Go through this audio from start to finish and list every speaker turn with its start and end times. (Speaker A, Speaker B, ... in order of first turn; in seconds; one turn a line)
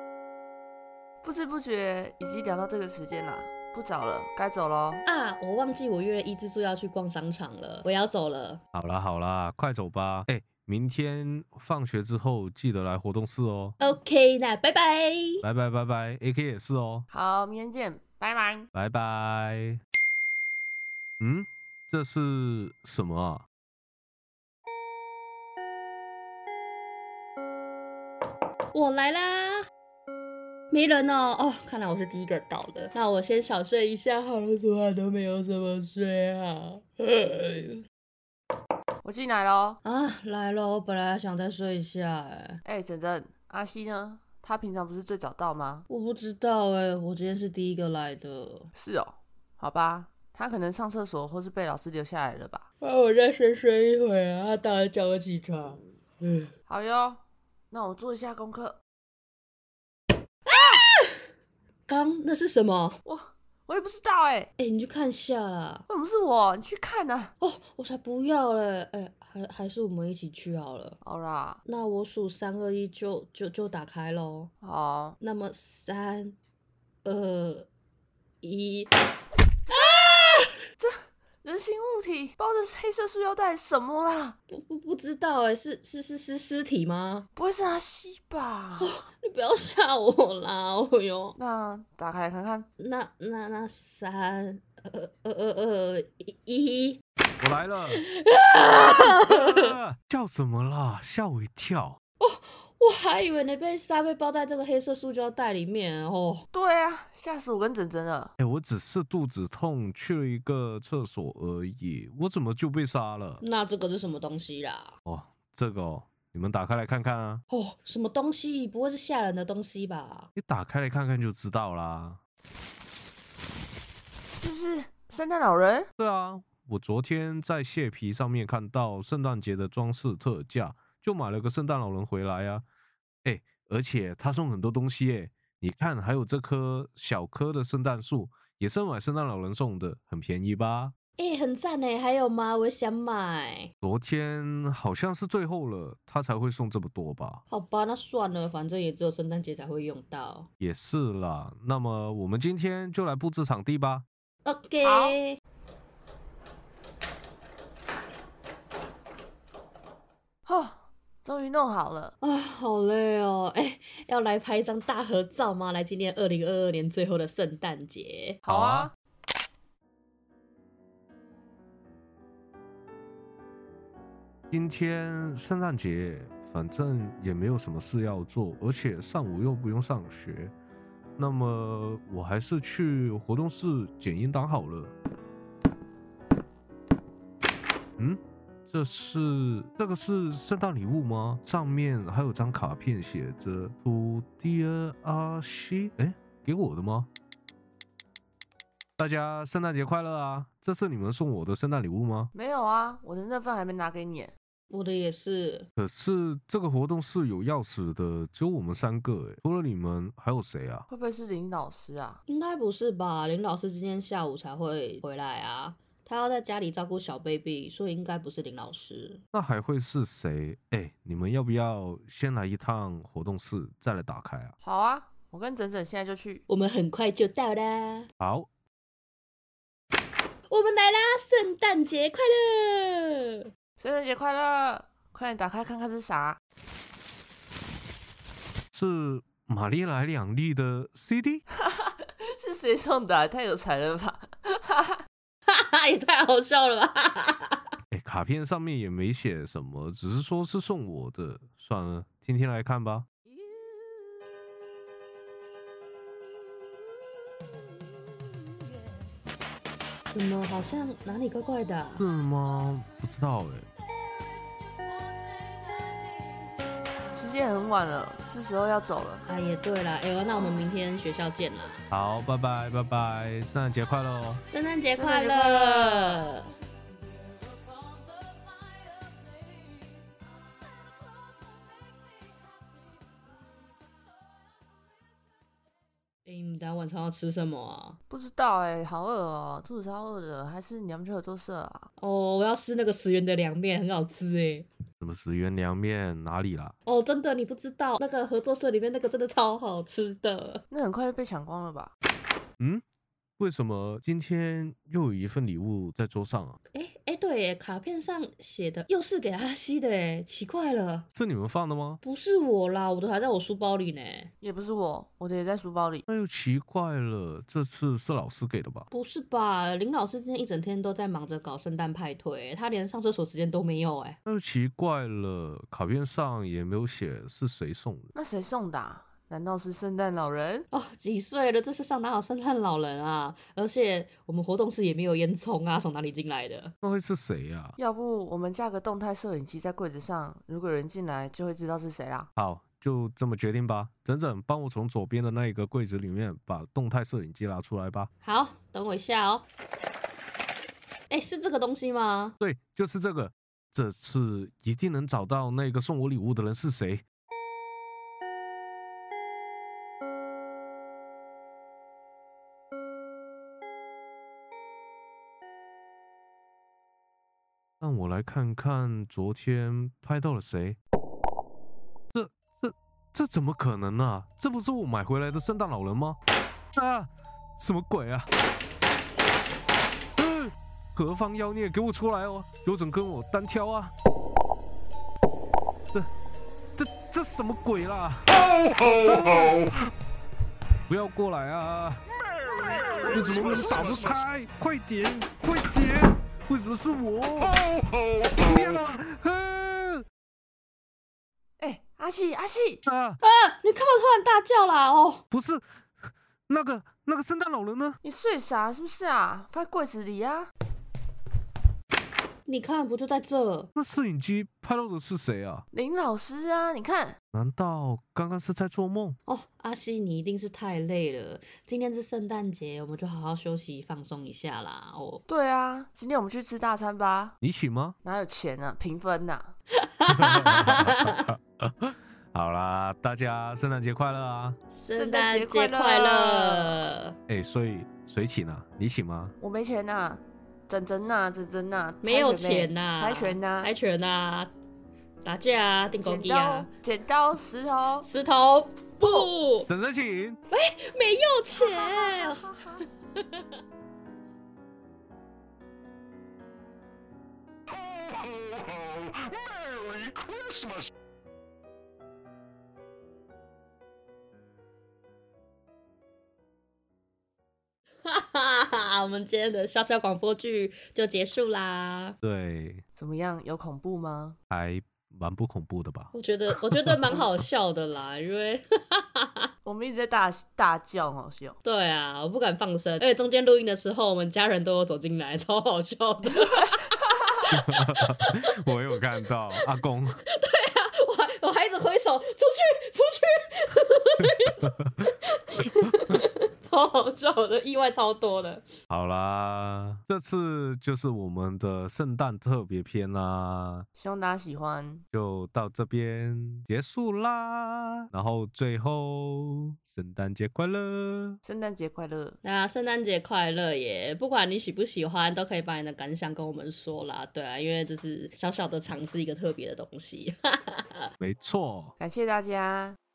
Speaker A: 1.2-5.0
Speaker B: 5.0-8.6
Speaker C: 8.7-13.8
Speaker B: 13.8-15.4
Speaker C: 15.4-17.1
Speaker A: 17.1-18.7
Speaker C: 18.7-19.8
Speaker C: 21.2-23.4
Speaker B: 28.7-29.7
Speaker B: 30.7-37.8
Speaker A: 39.0-39.8
Speaker B: 39.8-42.6
Speaker A: 42.6-45.9
Speaker B: 45.9-48.7
Speaker A: 48.7-52.6
Speaker B: 52.8-56.5
Speaker A: 56.7-57.2
Speaker A: 57.7-58.8
Speaker B: 60.5-61.2
Speaker B: 61.9-63.0
Speaker A: 63.0-64.5
Speaker B: 64.6-65.9
Speaker A: 65.9-67.3
Speaker B: 67.4-71.0
Speaker A: 71.0-71.6
Speaker B: 71.7-74.5
Speaker A: 74.6-75.2
Speaker B: 75.2-76.4
Speaker B: 77.0-77.7
Speaker B: 78.4-78.9
Speaker B: 79.7-80.5
Speaker A: 80.8-84.4
Speaker B: 84.5-87.3
Speaker A: 87.4-89.0
Speaker B: 88.8-91.4
Speaker A: 91.4-92.7
Speaker B: 92.8-97.0
Speaker C: 97.4-98.0
Speaker B: 98.0-99.8
Speaker C: 99.1-102.0
Speaker B: 102.2-106.5
Speaker A: 106.5-108.3
Speaker C: 108.4-113.4
Speaker B: 113.4-114.9
Speaker C: 115.1-117.4
Speaker B: 117.5-120.3
Speaker C: 120.3-122.2
Speaker A: 124.4-125.9
Speaker C: 126.0-132.7
Speaker C: 133.2-140.9
Speaker B: 141.2-143.7
Speaker C: 143.8-147.4
Speaker B: 147.5-150.5
Speaker C: 150.6-154.1
Speaker B: 154.4-155.4
Speaker A: 154.8-155.2
Speaker A: 160.5-162.1
Speaker B: 162.2-168.4
Speaker A: 168.4-168.9
Speaker C: 168.5-168.9
Speaker C: 174.5-180.5
Speaker C: 181.2-184.9
Speaker C: 188.0-197.1
Speaker C: 199.0-202.3
Speaker A: 202.3-204.3
Speaker B: 204.7-205.7
Speaker C: 205.8-210.9
Speaker A: 210.9-212.2
Speaker B: 212.3-219.2
Speaker C: 219.3-224.5
Speaker A: 224.6-226.4
Speaker B: 226.5-228.1
Speaker C: 228.2-228.5
Speaker B: 230.5-233.4
Speaker A: 233.8-236.4
Speaker C: 238.7-241.4
Speaker A: 241.6-245.0
Speaker B: 245.5-247.6
Speaker C: 247.9-253.1
Speaker B: 260.1-262.1
Speaker C: 262.0-263.7
Speaker A: 267.1-269.2
Speaker B: 269.3-271.8
Speaker C: 271.9-274.4
Speaker B: 274.5-276.5
Speaker A: 274.9-276.3
Speaker B: 286.2-288.0
Speaker A: 288.1-291.9
Speaker B: 292.0-294.7
Speaker C: 295.0-296.8
Speaker B: 296.9-300.6
Speaker A: 300.7-301.9
Speaker C: 303.4-306.6
Speaker B: 306.7-311.1
Speaker C: 311.1-312.0
Speaker B: 312.0-314.3
Speaker A: 314.4-316.0
Speaker C: 316.1-318.9
Speaker B: 318.9-324.2
Speaker C: 324.3-328.1
Speaker A: 328.1-330.7
Speaker B: 330.7-336.7
Speaker C: 336.8-337.8
Speaker A: 337.8-342.3
Speaker C: 342.4-348.1
Speaker B: 348.2-349.5
Speaker B: 351.1-352.4
Speaker C: 352.4-357.0
Speaker C: 367.8-370.8
Speaker C: 372.1-376.2
Speaker C: 376.7-378.3
Speaker C: 380.2-383.9
Speaker C: 386.8-389.6
Speaker C: 390.9-392.0
Speaker C: 393.1-397.6
Speaker C: 398.3-400.1
Speaker A: 401.6-402.8
Speaker C: 402.8-403.2
Speaker B: 403.2-405.2
Speaker C: 405.3-405.6
Speaker C: 406.5-408.0
Speaker A: 408.0-410.5
Speaker B: 412.5-413.7
Speaker C: 413.8-415.6
Speaker A: 415.7-417.2
Speaker C: 417.3-419.2
Speaker B: 419.3-425.2
Speaker A: 425.3-427.4
Speaker C: 427.4-428.0
Speaker A: 428.0-429.6
Speaker B: 429.9-431.2
Speaker C: 430.1-434.6
Speaker B: 434.7-437.2
Speaker A: 434.9-436.9
Speaker C: 437.3-439.3
Speaker A: 439.4-443.7
Speaker B: 442.0-444.5
Speaker B: 445.2-446.7
Speaker A: 446.0-448.1
Speaker B: 448.0-449.7
Speaker A: 449.0-449.3
Speaker C: 449.7-450.4
Speaker B: 450.5-452.5
Speaker A: 451.6-452.9
Speaker B: 453.2-453.4
Speaker B: 468.1-472.2
Speaker C: 472.2-472.8
Speaker A: 473.0-474.4
Speaker C: 474.5-476.1
Speaker B: 476.1-479.4
Speaker C: 476.7-477.2
Speaker A: 479.6-481.6
Speaker B: 481.6-486.8
Speaker A: 487.0-487.5
Speaker C: 487.5-490.2
Speaker B: 487.5-488.4
Speaker B: 490.3-494.7
Speaker B: 495.3-498.7
Speaker C: 498.9-503.9
Speaker A: 504.0-505.0
Speaker C: 505.1-511.4
Speaker A: 511.4-512.4
Speaker B: 512.4-521.1
Speaker C: 521.2-521.9
Speaker A: 522.0-523.0